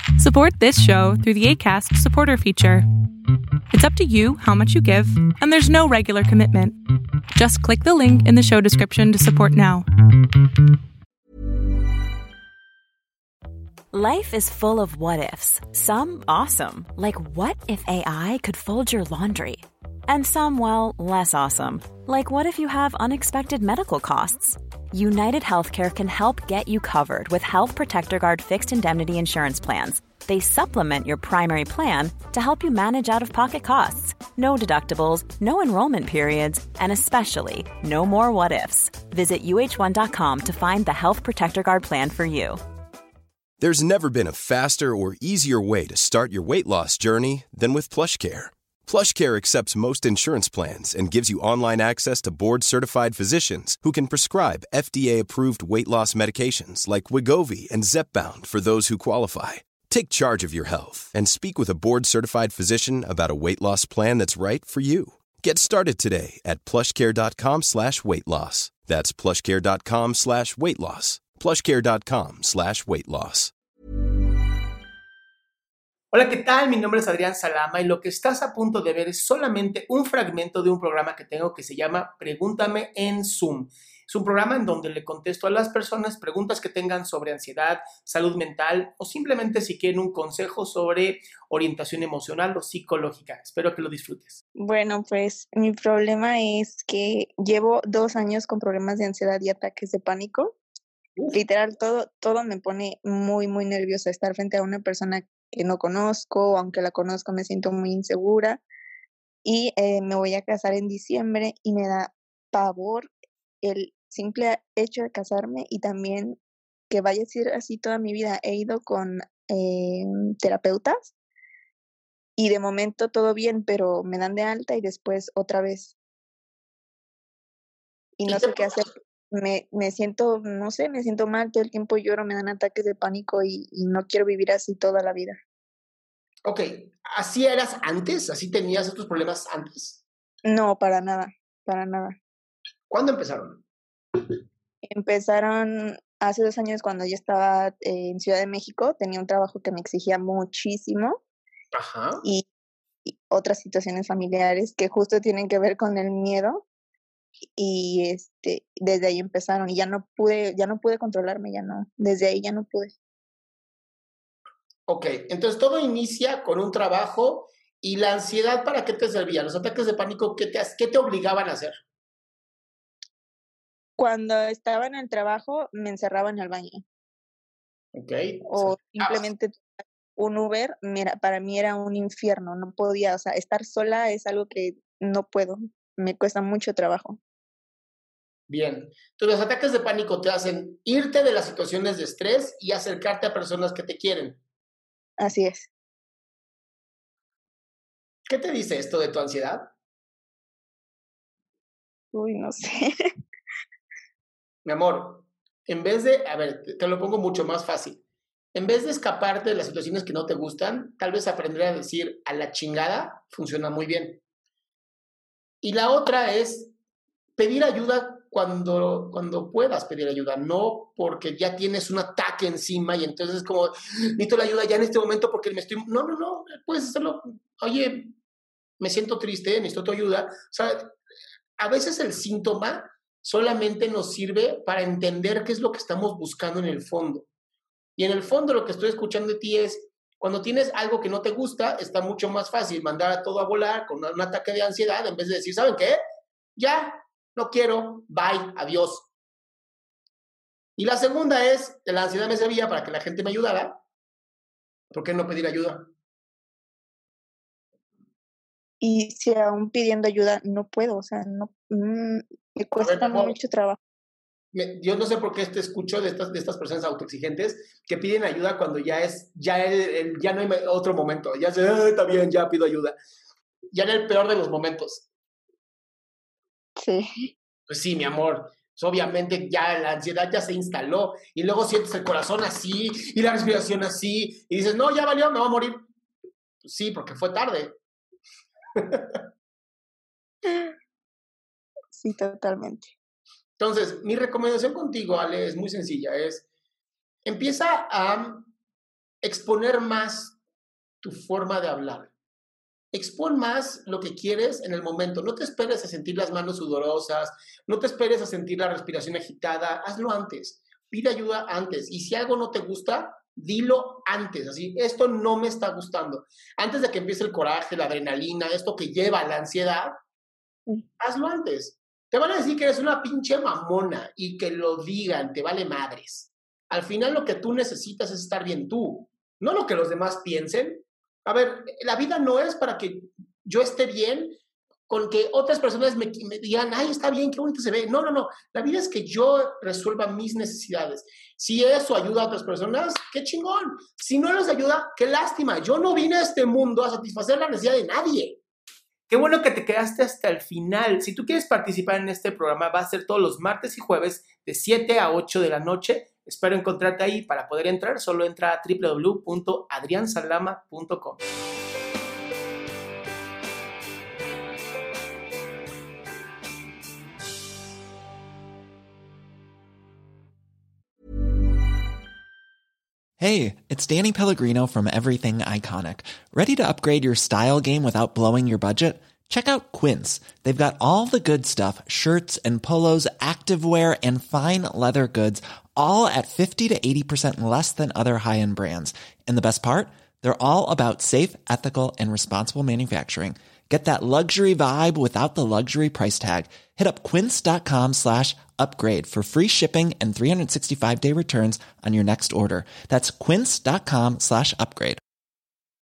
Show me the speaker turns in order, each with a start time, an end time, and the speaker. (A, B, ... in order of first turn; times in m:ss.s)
0:00.2-0:02.8 A
0:03.7-0:06.8 A
0:07.4-0:09.9 A
0:13.9-0:42.6 B
0:43.6-1:13.5 C
1:16.1-1:34.4 D
1:34.6-1:40.6 E
1:41.2-1:41.4 D
1:41.3-1:48.6 E
1:49.4-1:53.1 E
1:53.6-1:56.4 E
1:56.9-2:01.1 E
2:02.4-2:06.0 E
2:08.2-2:15.4 E
2:08.3-2:08.6 D
2:16.4-2:20.0 D
2:20.4-2:22.2 E
2:22.9-2:23.6 D
2:24.9-2:31.2 E
2:31.7-2:32.2 D
2:33.1-2:36.6 E
2:37.6-2:42.9 E
2:44.9-2:51.8 D
2:54.0-2:56.8 E
2:58.0-2:59.2 D
2:58.5-2:59.6 E
3:00.2-3:07.2 E
3:08.5-3:14.4 D
3:15.2-3:15.7 E
3:18.3-3:19.7 D
3:22.1-3:22.8 E
3:24.6-3:28.0 D
3:28.6-3:34.2 D
3:35.6-3:36.7 D
3:37.4-3:48.2 D
3:48.8-3:50.8 D
3:51.6-3:57.3 D
3:58.0-4:06.0 D
4:06.6-4:09.1 D
4:10.8-4:13.8 D
4:14.9-4:15.9 D
4:18.8-4:23.8 E
4:22.8-4:23.4 D
4:24.5-4:33.0 D
4:33.7-4:35.1 D
4:36.8-4:37.3 E
4:37.7-4:45.8 D
4:46.6-4:47.8 D
4:48.8-4:49.2 D
4:51.9-4:52.9 E
4:53.6-4:56.5 D
4:57.2-4:58.5 D
4:59.2-5:00.4 D
5:01.0-5:02.1 D
5:02.9-5:19.9 D
5:21.0-5:34.4 D
5:34.9-5:48.4 D
5:49.1-6:01.2 D
6:13.2-6:45.0 F